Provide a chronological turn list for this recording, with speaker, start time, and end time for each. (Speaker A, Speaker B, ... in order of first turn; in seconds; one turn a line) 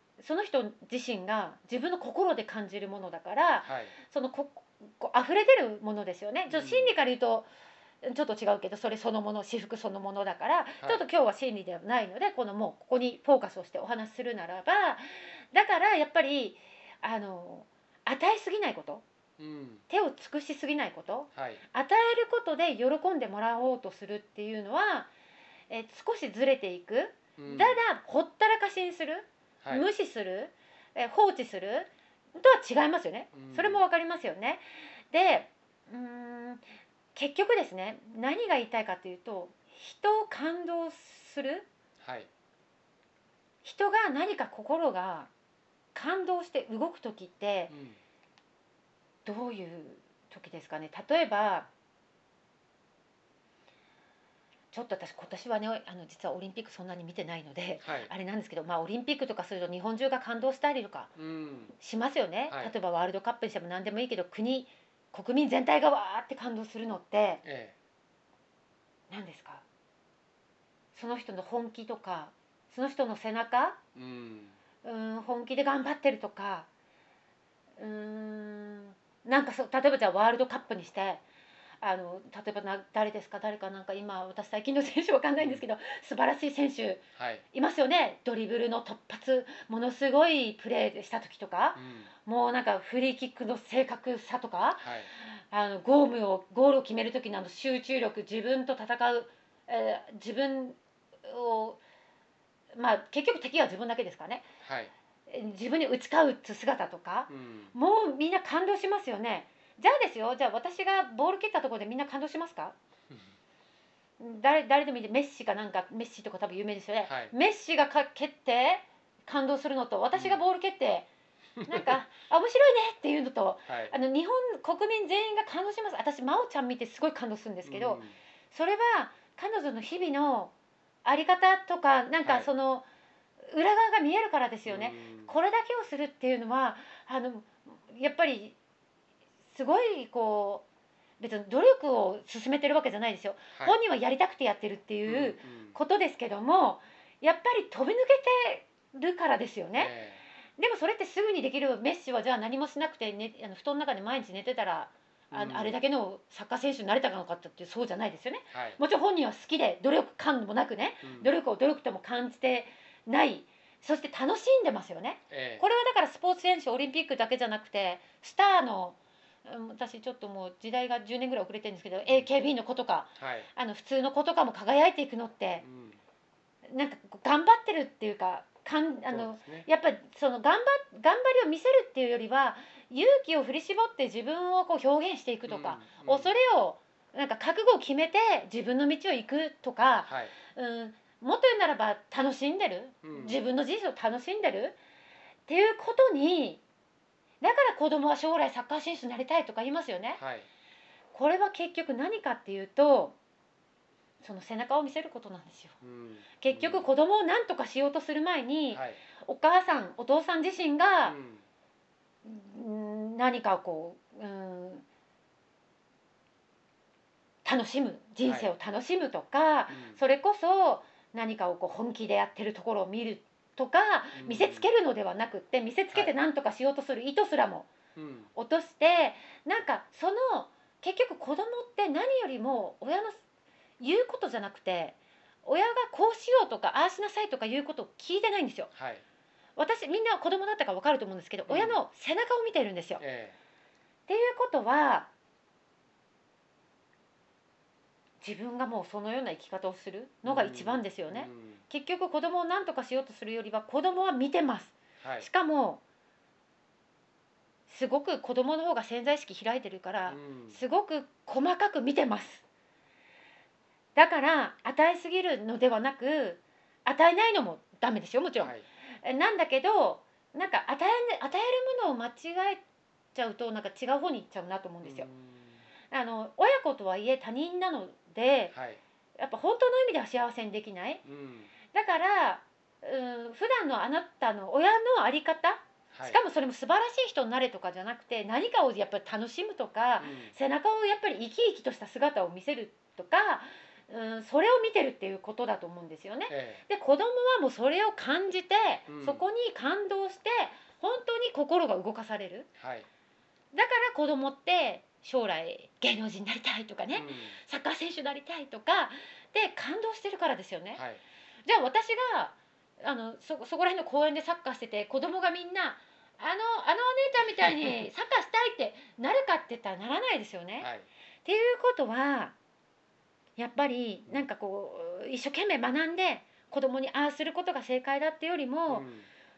Speaker A: 0.2-7.5
Speaker B: 3.6-4.0
Speaker B: 6.5-7.0
Speaker A: 8.0-19.0
Speaker B: 19.4-19.8
Speaker A: 19.9-25.1
Speaker B: 21.4-21.6
Speaker A: 25.7-36.6
Speaker B: 27.4-27.8
Speaker B: 33.3-33.9
Speaker A: 37.1-41.7
Speaker B: 42.0-42.3
Speaker A: 43.6-45.3
Speaker A: 46.0-47.7
Speaker B: 47.7-48.0
Speaker A: 49.3-51.7
Speaker A: 54.7-61.1
Speaker B: 57.8-58.1
Speaker B: 61.2-61.7
Speaker A: 61.8-67.4
Speaker B: 67.4-67.8
Speaker A: 69.1-69.6
Speaker A: 70.9-73.8
Speaker B: 74.0-74.6
Speaker A: 74.8-76.7
Speaker A: 77.8-81.2
Speaker A: 81.8-101.8
Speaker B: 85.4-85.7
Speaker B: 87.2-87.4
Speaker B: 91.8-92.1
Speaker B: 94.8-95.1
Speaker A: 102.7-104.5
Speaker B: 104.6-104.9
Speaker A: 105.3-112.8
Speaker B: 107.3-107.7
Speaker A: 114.2-121.1
Speaker B: 117.0-117.3
Speaker B: 120.2-120.4
Speaker B: 121.6-122.0
Speaker A: 121.7-130.5
Speaker B: 123.7-124.0
Speaker B: 127.7-128.2
Speaker A: 131.1-132.9
Speaker B: 132.2-132.5
Speaker A: 133.5-138.6
Speaker B: 134.7-135.3
Speaker A: 139.5-140.7
Speaker A: 141.2-149.9
Speaker B: 143.5-143.8
Speaker B: 145.1-145.8
Speaker B: 149.8-150.2
Speaker A: 150.6-175.6
Speaker B: 155.3-155.8
Speaker B: 158.5-158.8
Speaker B: 161.0-161.3
Speaker B: 165.3-165.6
Speaker B: 173.2-173.5
Speaker B: 175.6-176.0
Speaker A: 176.7-194.8
Speaker B: 179.1-179.7
Speaker B: 185.5-186.3
Speaker B: 190.1-190.4
Speaker B: 193.0-193.4
Speaker A: 195.5-196.6
Speaker A: 197.4-200.2
Speaker B: 200.2-200.5
Speaker A: 201.1-203.2
Speaker A: 204.2-205.8
Speaker B: 205.8-206.9
Speaker A: 206.4-211.2
Speaker B: 208.7-209.0
Speaker B: 211.0-211.4
Speaker A: 212.2-214.8
Speaker A: 217.4-227.7
Speaker B: 218.2-218.5
Speaker B: 219.7-220.0
Speaker B: 224.2-224.7
Speaker B: 228.0-228.3
Speaker A: 228.4-233.2
Speaker A: 233.8-238.7
Speaker B: 238.7-239.0
Speaker A: 239.6-243.0
Speaker B: 241.5-241.8
Speaker B: 243.0-243.4
Speaker A: 244.1-245.1
Speaker A: 248.2-255.8
Speaker B: 250.2-251.6
Speaker B: 255.0-255.3
Speaker A: 257.7-262.4
Speaker B: 260.1-260.6
Speaker A: 264.0-272.6
Speaker B: 268.4-268.6
Speaker A: 273.1-275.1
Speaker B: 274.8-275.7
Speaker A: 275.9-278.5
Speaker B: 278.5-278.8
Speaker A: 279.2-281.0
Speaker B: 281.1-281.5
Speaker A: 281.7-302.5
Speaker B: 285.9-286.2
Speaker B: 290.0-290.4
Speaker B: 296.3-296.6
Speaker B: 298.9-299.3
Speaker B: 302.6-302.9
Speaker A: 303.5-310.8
Speaker B: 306.9-307.4
Speaker B: 310.8-311.0
Speaker A: 311.5-320.7
Speaker B: 320.6-320.9
Speaker A: 321.2-322.4
Speaker A: 323.4-328.9
Speaker B: 328.7-329.1